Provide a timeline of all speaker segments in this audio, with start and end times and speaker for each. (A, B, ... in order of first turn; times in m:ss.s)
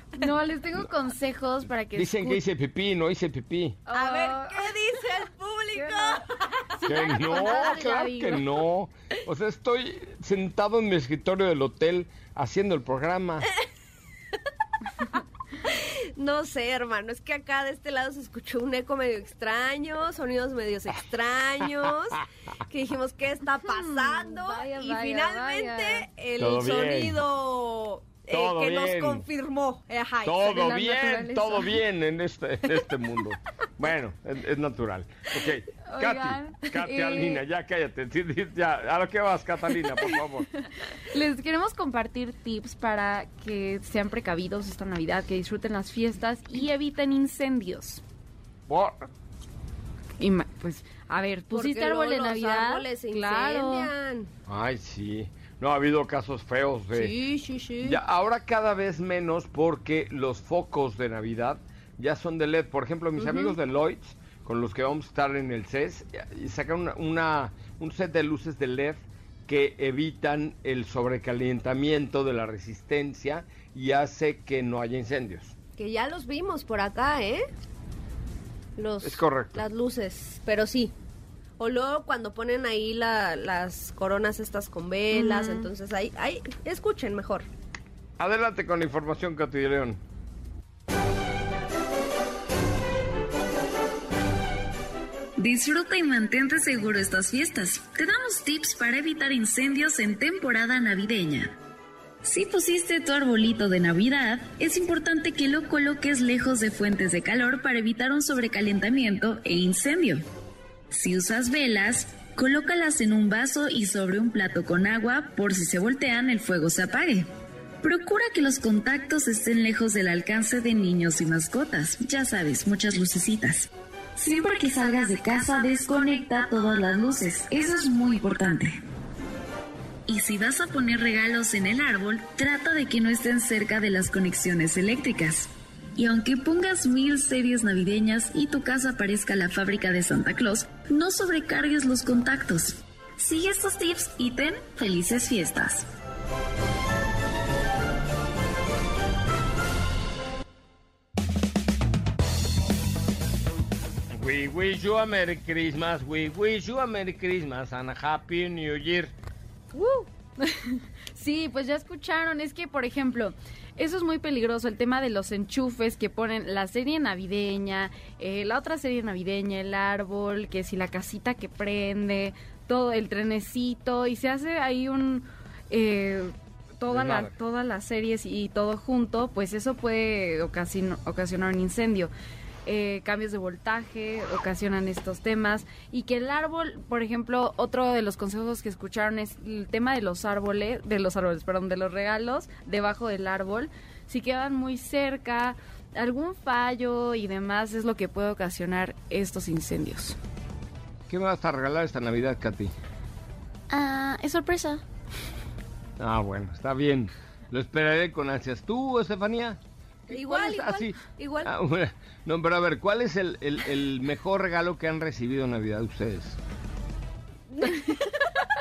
0:00.2-0:02.4 A
0:02.0-0:03.8 B
0:03.9-0:04.7 A
0:03.9-0:07.8 C
0:05.7-0:08.5 A
0:06.9-0:13.5 B
0:15.6-0:30.8 C
0:23.7-0:26.0 A
0:26.4-0:27.2 B
0:28.3-0:29.2 B
0:30.2-0:40.5 B
0:30.6-0:31.8 A
0:35.8-0:37.4 A
0:40.6-0:48.0 A
0:48.7-0:49.1 B
0:50.2-0:53.9 A
0:51.5-0:54.3 C
0:54.5-0:57.2 B
0:56.9-0:58.0 C
0:57.8-1:15.6 B
1:03.2-1:03.6 C
1:15.8-1:17.4 C
1:18.8-1:20.9 C
1:19.0-1:19.6 B
1:21.6-1:27.5 C
1:25.1-1:25.7 A
1:28.2-1:30.0 B
1:35.4-1:41.6 D
1:42.2-1:50.2 D
1:50.9-1:57.3 D
1:57.8-2:08.8 D
2:10.1-2:25.9 D
2:34.1-2:39.1 B
2:39.8-2:40.1 C
2:40.4-3:02.1 A
2:56.9-2:57.3 B
3:02.7-3:20.2 A
3:21.1-3:22.7 B
3:23.7-3:24.8 D
3:26.0-3:29.6 B
3:30.1-3:31.5 C
3:30.1-3:36.4 B
3:37.5-3:38.2 C